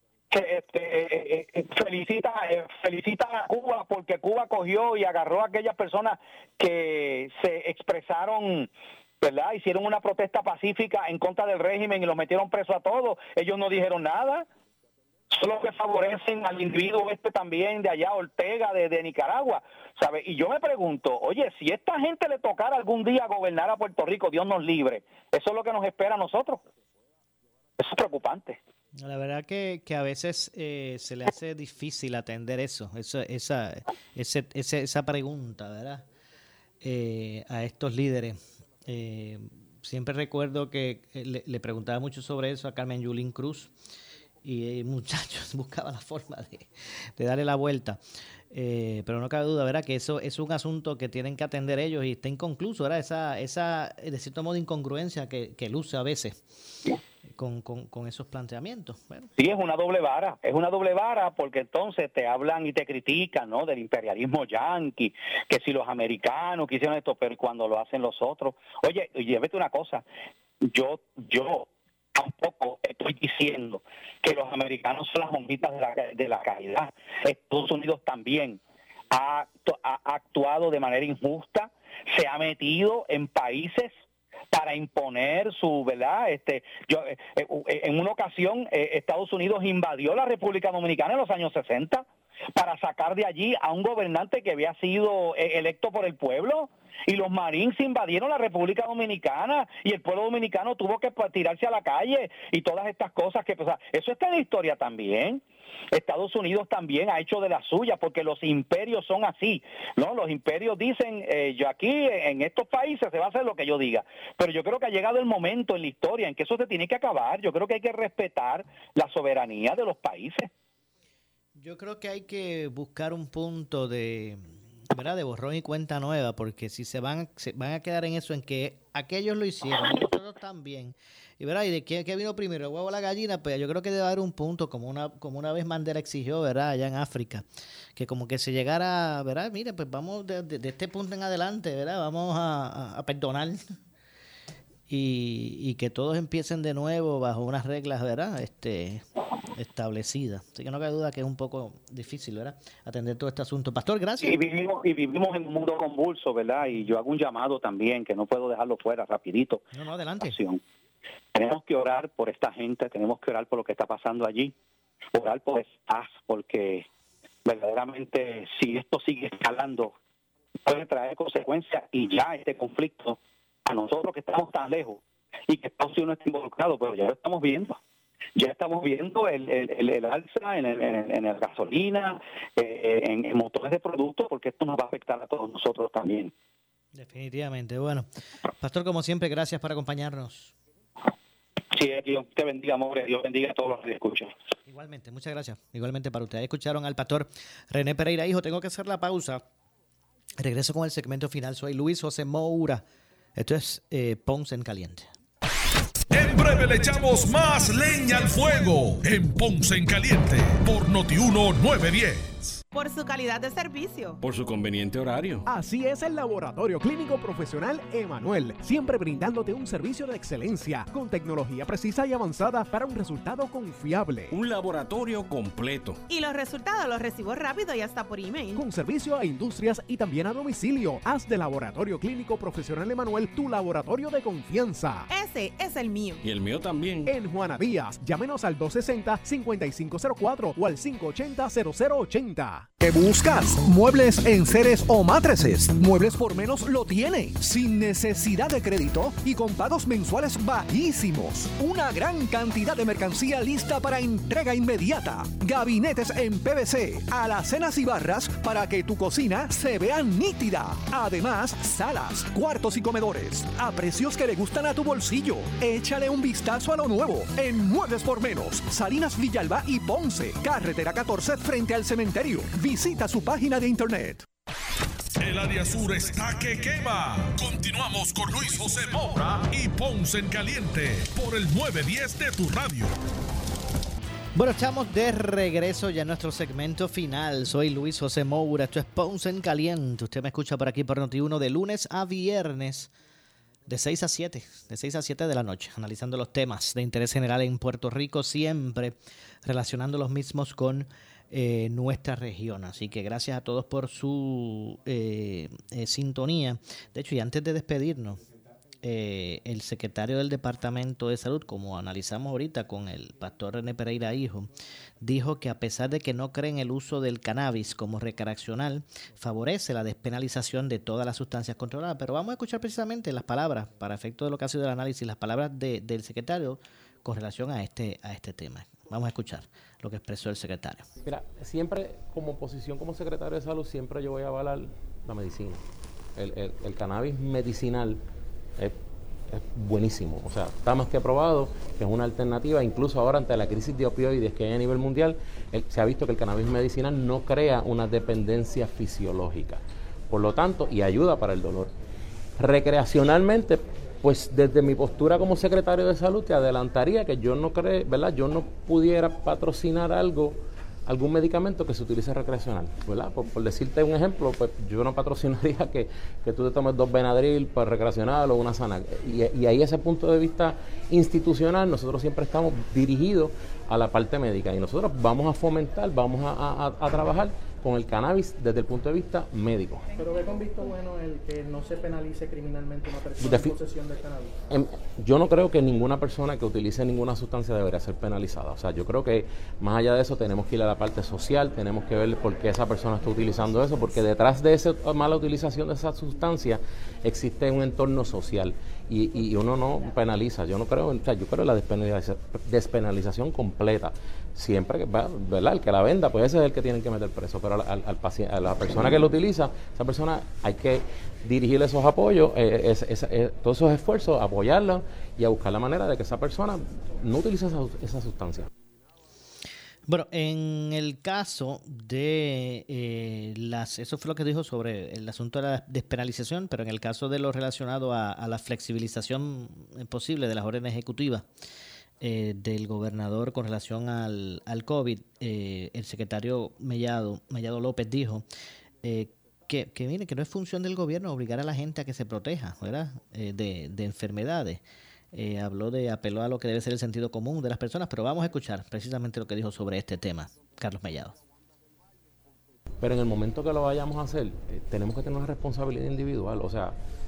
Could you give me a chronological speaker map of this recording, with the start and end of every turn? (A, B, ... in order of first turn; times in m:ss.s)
0:00.3-0:08.7 A
0:09.2-0:14.4 A
0:15.3-0:26.6 A
0:27.8-0:28.6 A
0:29.0-0:36.0 B
0:36.8-0:43.7 B
0:44.4-0:56.4 B
0:57.4-0:59.3 B
0:59.4-1:10.0 A
1:10.6-1:18.6 A
1:19.1-1:23.9 A
1:24.5-1:32.0 A
1:32.6-2:00.5 A
2:01.6-2:23.6 B
2:24.9-2:34.4 B
2:34.2-2:39.6 A
2:39.7-2:40.4 B
2:40.2-2:40.6 A
2:41.3-2:44.5 A
2:45.1-2:46.8 A
2:47.4-2:49.9 A
2:50.6-2:57.8 A
2:58.4-3:06.3 A
3:06.9-3:10.5 B
3:11.7-3:14.3 A
3:14.6-3:19.4 B
3:20.4-3:22.8 B
3:23.4-3:25.1 B
3:26.1-3:32.6 C
3:32.7-3:34.2 D
3:34.2-3:35.4 E
3:35.4-3:44.4 F
3:44.3-3:46.0 E
3:46.1-3:48.6 D
3:48.6-3:55.1 F
3:55.1-3:56.2 D
3:56.2-3:57.1 E
3:57.0-4:02.7 F
4:02.8-4:34.2 G
4:35.2-4:42.9 C
4:44.3-4:52.9 B
4:53.7-5:08.2 B
5:08.8-5:30.9 B
5:31.0-5:35.6 H
5:36.2-5:38.0 H
5:39.3-5:51.7 H
5:52.4-6:19.9 H
6:19.9-6:24.3 I
6:23.2-6:23.5 H
6:24.5-6:58.5 H
6:59.9-7:11.3 B
7:12.0-7:18.2 B
7:18.8-7:31.2 B
7:32.8-7:36.8 H